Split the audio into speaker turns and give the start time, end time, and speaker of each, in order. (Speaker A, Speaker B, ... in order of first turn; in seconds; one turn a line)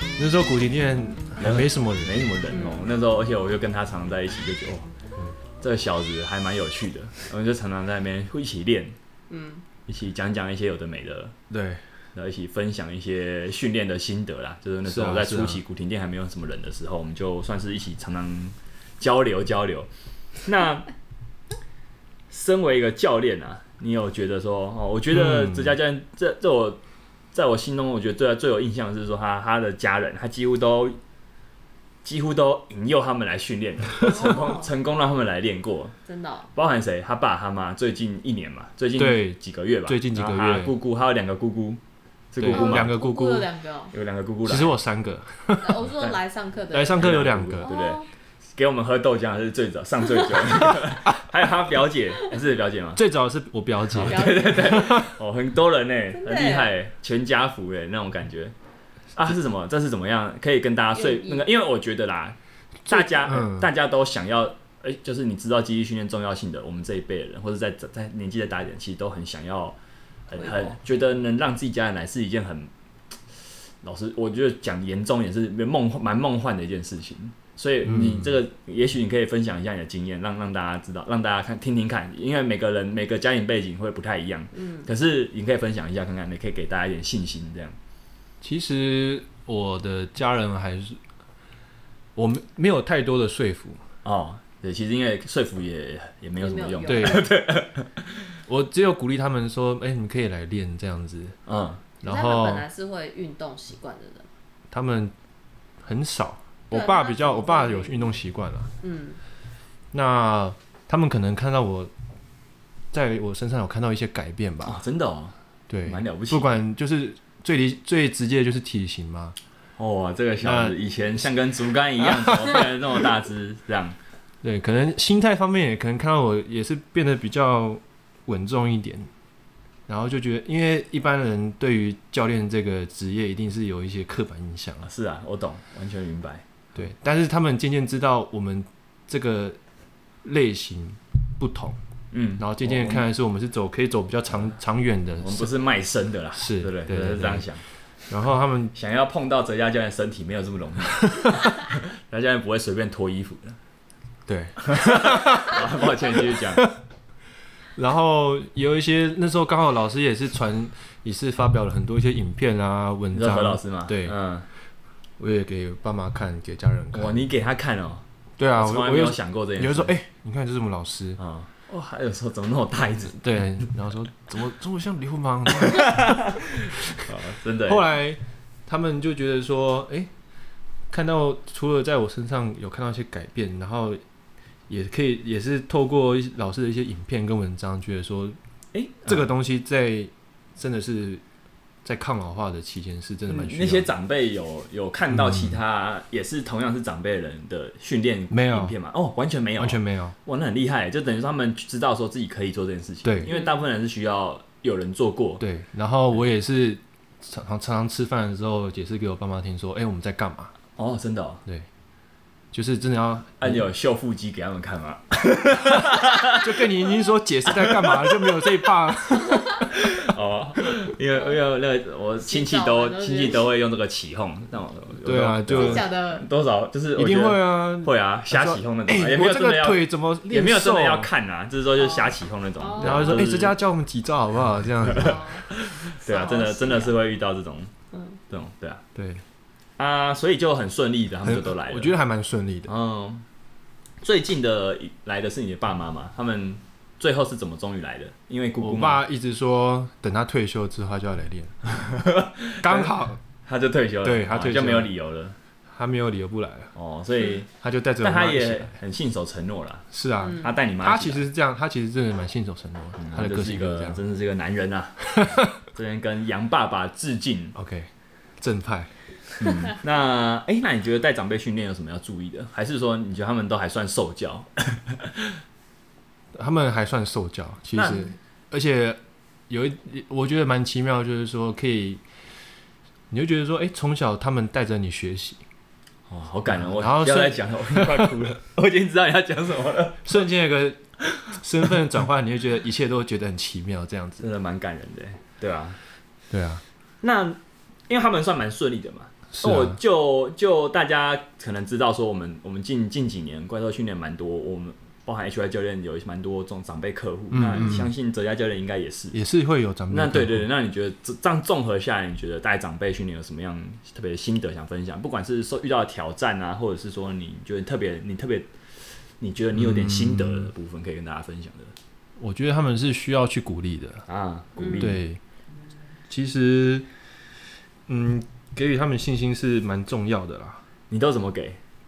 Speaker A: 0.2-2.4
Speaker B: 1.4-4.9
Speaker C: 2.5-2.9
Speaker B: 5.6-8.9
Speaker C: 9.3-9.6
Speaker B: 9.9-11.3
Speaker A: 11.5-11.8
Speaker B: 12.1-19.9
Speaker A: 14.8-15.6
Speaker B: 20.4-20.9
Speaker B: 22.3-26.8
Speaker A: 25.1-25.8
Speaker B: 27.3-31.0
Speaker B: 32.0-35.9
Speaker C: 34.0-34.7
Speaker C: 36.1-36.5
Speaker B: 36.5-41.8
Speaker A: 39.0-40.7
Speaker B: 42.3-42.9
Speaker A: 42.4-43.5
Speaker C: 42.5-43.9
Speaker B: 43.9-44.7
Speaker A: 44.5-45.8
Speaker C: 45.6-48.1
Speaker A: 46.7-47.7
Speaker B: 47.0-48.0
Speaker B: 48.5-53.0
Speaker A: 52.9-55.1
Speaker B: 53.9-58.5
Speaker C: 54.0-55.0
Speaker C: 56.1-56.7
Speaker B: 59.1-69.8
Speaker C: 60.9-61.5
Speaker A: 62.9-63.7
Speaker B: 70.3-72.7
Speaker C: 70.4-70.7
Speaker B: 73.8-87.8
Speaker A: 77.8-78.3
Speaker A: 88.4-91.0
Speaker A: 92.1-93.8
Speaker B: 94.0-98.0
Speaker C: 96.4-97.3
Speaker A: 96.9-97.3
Speaker A: 98.5-101.4
Speaker B: 101.5-101.8
Speaker A: 102.0-102.7
Speaker C: 102.0-104.3
Speaker A: 104.7-105.1
Speaker A: 105.8-108.7
Speaker C: 106.7-108.1
Speaker C: 108.8-109.2
Speaker A: 109.9-111.9
Speaker A: 112.9-114.8
Speaker B: 114.6-115.3
Speaker A: 115.7-119.3
Speaker B: 115.8-116.5
Speaker B: 119.8-124.0
Speaker A: 120.4-120.8
Speaker A: 122.0-122.6
Speaker A: 124.4-129.1
Speaker A: 129.9-134.9
Speaker B: 134.8-136.4
Speaker A: 136.7-139.6
Speaker A: 140.2-141.8
Speaker B: 142.1-143.1
Speaker A: 142.4-145.5
Speaker B: 145.2-147.6
Speaker A: 146.3-147.5
Speaker A: 148.1-148.7
Speaker B: 148.7-153.6
Speaker A: 151.0-151.5
Speaker A: 154.3-156.7
Speaker B: 154.6-156.7
Speaker A: 157.8-164.1
Speaker B: 163.1-164.4
Speaker A: 165.2-167.1
Speaker B: 166.9-168.0
Speaker A: 168.4-171.2
Speaker B: 168.6-169.9
Speaker B: 171.2-173.4
Speaker A: 173.1-177.1
Speaker B: 175.7-177.9
Speaker A: 177.7-180.1
Speaker A: 180.9-184.0
Speaker A: 184.7-188.4
Speaker B: 188.7-189.2
Speaker A: 189.0-191.2
Speaker A: 191.8-193.9
Speaker B: 193.3-205.4
Speaker A: 195.1-195.6
Speaker A: 198.3-198.7
Speaker A: 199.6-200.1
Speaker A: 203.0-203.3
Speaker C: 203.3-203.6
Speaker A: 205.4-210.5
Speaker B: 210.8-211.4
Speaker A: 212.5-213.6
Speaker B: 213.4-216.6
Speaker A: 216.3-219.8
Speaker B: 217.5-218.4
Speaker B: 219.6-233.5
Speaker C: 222.2-223.5
Speaker A: 225.0-225.9
Speaker C: 225.5-226.3
Speaker A: 226.9-231.1
Speaker C: 231.8-233.2
Speaker A: 232.8-235.3
Speaker C: 234.9-237.0
Speaker B: 234.9-237.7
Speaker C: 237.9-238.2
Speaker B: 238.3-238.8
Speaker A: 238.9-239.2
Speaker B: 239.8-241.9
Speaker A: 241.2-242.7
Speaker B: 242.7-243.2
Speaker B: 244.0-249.0
Speaker A: 248.6-251.6
Speaker B: 251.7-255.3
Speaker A: 252.6-253.2
Speaker A: 254.0-254.9
Speaker A: 255.7-256.7
Speaker B: 256.7-257.5
Speaker A: 257.5-258.8
Speaker B: 258.0-261.2
Speaker A: 259.9-264.0
Speaker C: 260.2-260.5
Speaker B: 263.0-267.6
Speaker A: 265.1-265.5
Speaker A: 267.5-268.9
Speaker B: 269.4-275.3
Speaker A: 276.3-282.0
Speaker B: 277.7-278.1
Speaker A: 283.1-285.4
Speaker B: 286.1-290.1
Speaker A: 286.5-288.1
Speaker A: 290.0-294.2
Speaker B: 294.2-295.8
Speaker A: 296.3-296.6
Speaker B: 297.0-309.1
Speaker A: 299.3-299.8
Speaker A: 307.3-307.9
Speaker A: 309.1-310.5
Speaker B: 309.9-318.5
Speaker B: 319.1-321.7
Speaker A: 319.5-320.5
Speaker A: 322.2-324.0
Speaker B: 324.1-325.0
Speaker C: 324.6-324.9
Speaker A: 324.8-325.2
Speaker A: 326.1-326.9
Speaker A: 327.9-330.6
Speaker B: 330.9-331.6